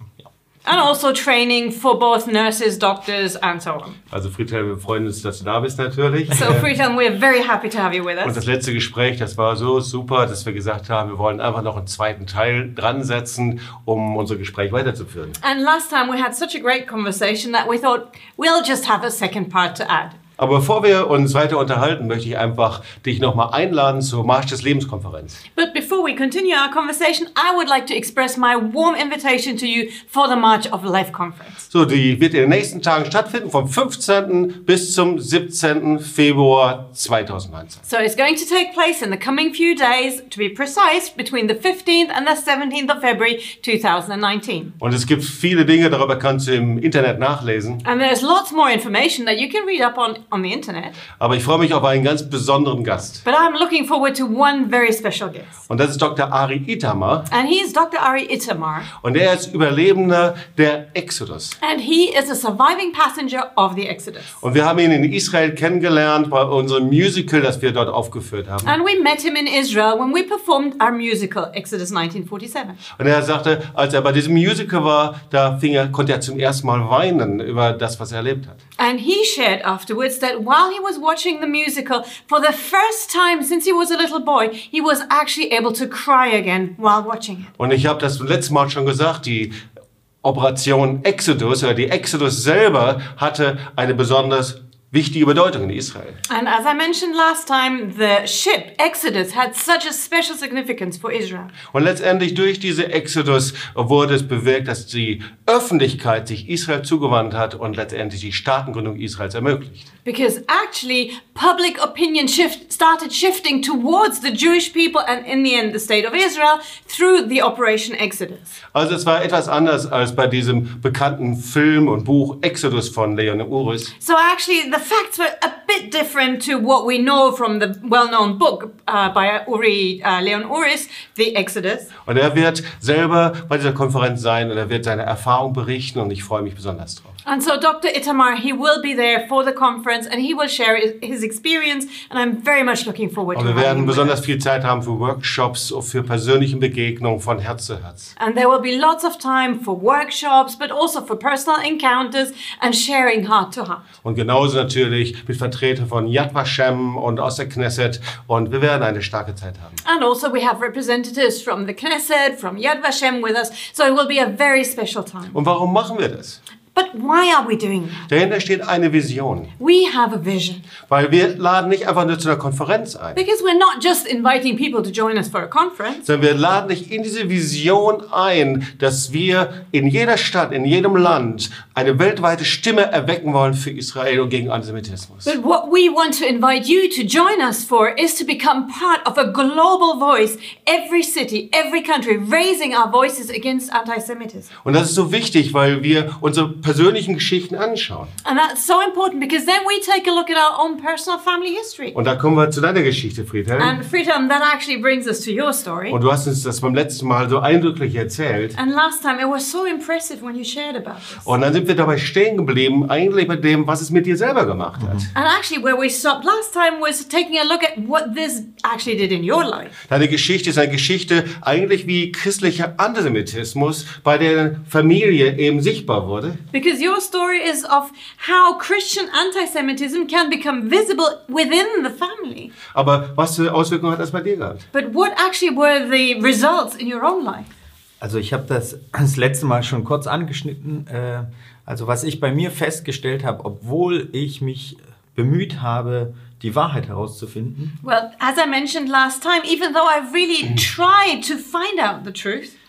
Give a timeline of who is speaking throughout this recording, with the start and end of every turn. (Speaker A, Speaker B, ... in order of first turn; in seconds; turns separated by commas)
Speaker A: 0.6-4.0, Speaker B: 4.1-6.7, Speaker A: 6.3-8.4, Speaker B: 8.2-15.4, Speaker A: 15.4-20.1, Speaker B: 20.4-25.4, Speaker A: 25.5-31.6, Speaker B: 31.7-37.8, Speaker A: 37.9-44.7, Speaker B: 44.8-47.8, Speaker A: 47.8-51.0, Speaker B: 51.2-53.2, Speaker A: 53.2-55.6, Speaker B: 55.7-57.3, Speaker A: 57.3-58.9, Speaker B: 59.0-61.6, Speaker A: 61.6-64.3, Speaker B: 64.4-68.7, Speaker A: 68.6-72.8, Speaker B: 73.0-78.6, Speaker A: 78.8-87.5, Speaker B: 87.6-89.5, Speaker B: 90.2-96.2, Speaker A: 96.3-101.5, Speaker B: 101.7-109.9, Speaker A: 110.0-118.5, Speaker B: 118.7-123.9, Speaker A: 124.0-131.9, Speaker B: 132.1-137.2, Speaker A: 137.2-144.2, Speaker B: 143.3-148.1, Speaker A: 148.2-153.8, Speaker B: 154.0-159.8, Speaker A: 159.8-165.4, Speaker B: 165.3-166.4, Speaker A: 166.7-168.1, Speaker B: 168.1-169.5, Speaker A: 169.6-170.6, Speaker B: 170.9-173.2, Speaker A: 173.2-176.0, Speaker B: 176.0-185.4, Speaker A: 185.2-194.5, Speaker B: 194.6-198.1, Speaker A: 198.2-201.9, Speaker B: 201.9-203.8, Speaker A: 203.6-206.0, Speaker B: 205.9-208.6, Speaker A: 208.5-211.3, Speaker B: 211.2-215.1, Speaker C: 214.8-215.1, Speaker A: 215.1-219.7, Speaker B: 219.9-226.4, Speaker A: 226.5-232.5, Speaker B: 232.7-234.6, Speaker A: 234.7-237.5, Speaker C: 238.0-247.7, Speaker A: 247.8-252.5